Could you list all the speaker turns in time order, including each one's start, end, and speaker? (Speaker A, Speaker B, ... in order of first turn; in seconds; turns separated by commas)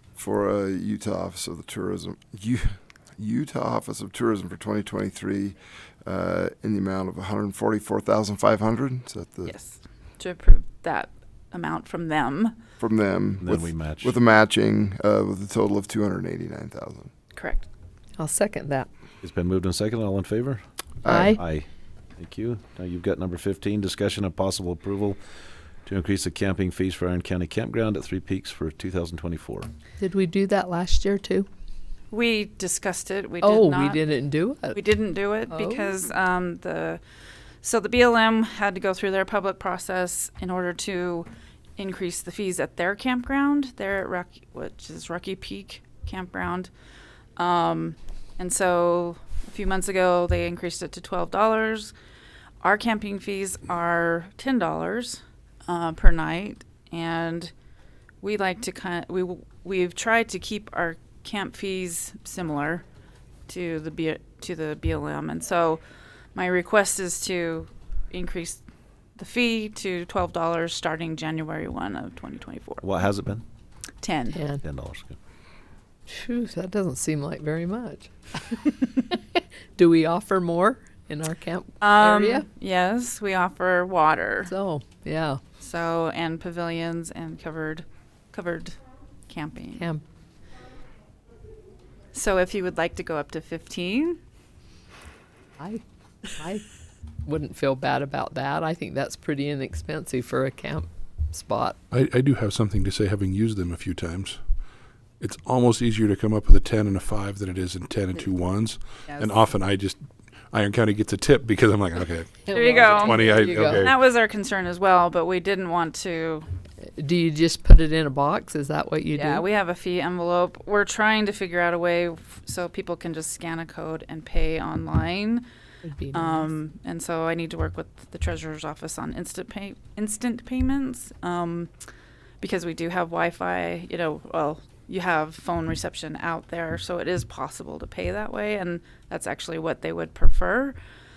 Speaker A: 0.1-9.5, Speaker B: 9.4-12.6, Speaker A: 12.8-17.1, Speaker C: 13.4-14.2, Speaker B: 17.3-17.6, Speaker D: 18.2-18.9, Speaker C: 19.2-20.6, Speaker A: 21.0-21.3, Speaker D: 21.0-21.4, Speaker C: 21.2-29.7, Speaker D: 30.0-31.5, Speaker B: 32.1-34.0, Speaker D: 33.4-34.8, Speaker B: 34.7-37.0, Speaker D: 35.5-35.9, Speaker B: 37.6-46.7, Speaker B: 47.4-51.9, Speaker B: 52.6-57.5, Speaker B: 58.2-62.8, Speaker B: 63.5-65.8, Speaker B: 66.3-68.6, Speaker B: 69.2-72.8, Speaker C: 72.8-73.4, Speaker B: 74.0-74.4, Speaker D: 74.3-74.6, Speaker C: 74.6-75.2, Speaker D: 76.1-78.7, Speaker D: 79.8-82.5, Speaker B: 81.8-84.5, Speaker D: 84.4-85.4, Speaker B: 85.6-89.9, Speaker D: 89.7-90.0, Speaker B: 92.1-94.2, Speaker D: 95.6-96.6, Speaker D: 97.2-101.8, Speaker E: 101.9-104.4, Speaker E: 105.2-110.0, Speaker B: 109.0-109.5, Speaker E: 110.5-114.0, Speaker D: 112.5-113.8, Speaker B: 112.5-116.5, Speaker D: 117.0-119.5, Speaker B: 119.1-125.5, Speaker D: 125.8-126.5, Speaker B: 126.1-131.7, Speaker B: 132.4-140.8